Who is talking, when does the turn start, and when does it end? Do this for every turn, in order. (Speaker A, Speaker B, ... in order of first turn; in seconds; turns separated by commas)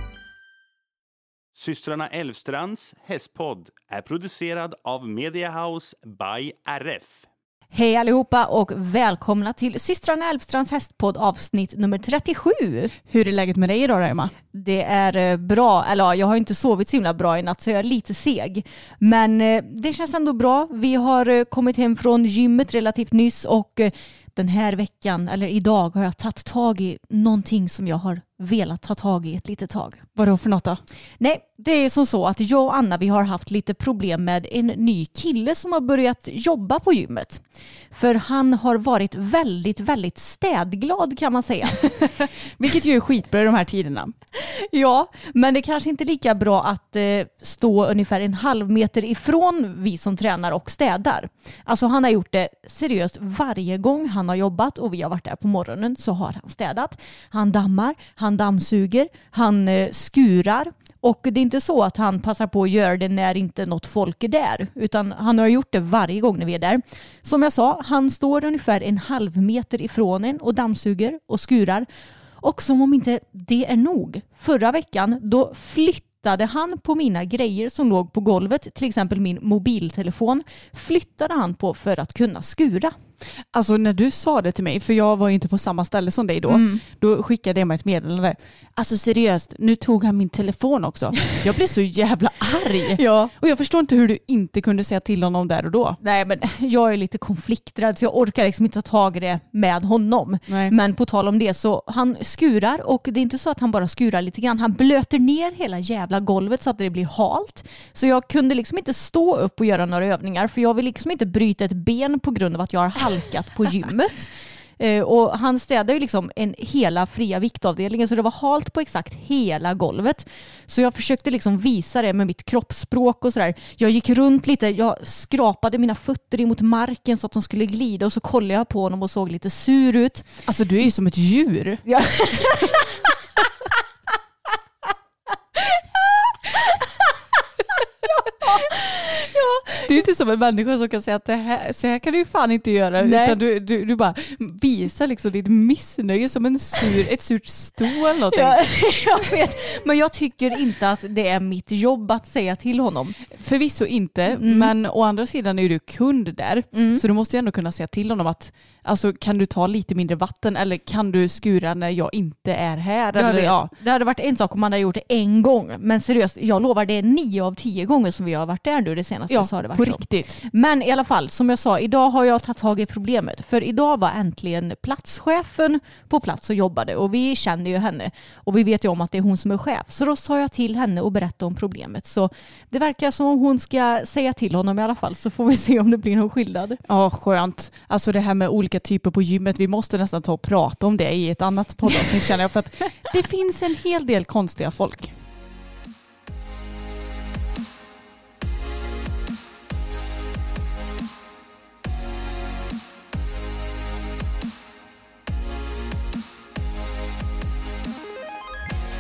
Speaker A: 1.6-7.3, Speaker B: 7.7-12.9, Speaker C: 13.1-14.3, Speaker B: 14.5-30.0, Speaker C: 30.2-30.8, Speaker B: 31.2-41.9, Speaker C: 41.8-44.1, Speaker B: 44.3-71.9, Speaker B: 72.4-83.0, Speaker C: 83.5-96.0, Speaker B: 86.5-86.8, Speaker B: 93.0-93.3, Speaker B: 96.0-130.3, Speaker C: 100.5-100.7, Speaker C: 130.5-132.5, Speaker B: 131.9-133.0, Speaker B: 138.1-139.8, Speaker C: 139.8-148.9, Speaker B: 143.0-143.4, Speaker B: 148.3-153.2, Speaker C: 153.3-163.7, Speaker B: 154.3-154.7, Speaker B: 156.7-157.0, Speaker B: 163.2-186.8, Speaker C: 169.3-170.4, Speaker C: 186.8-195.1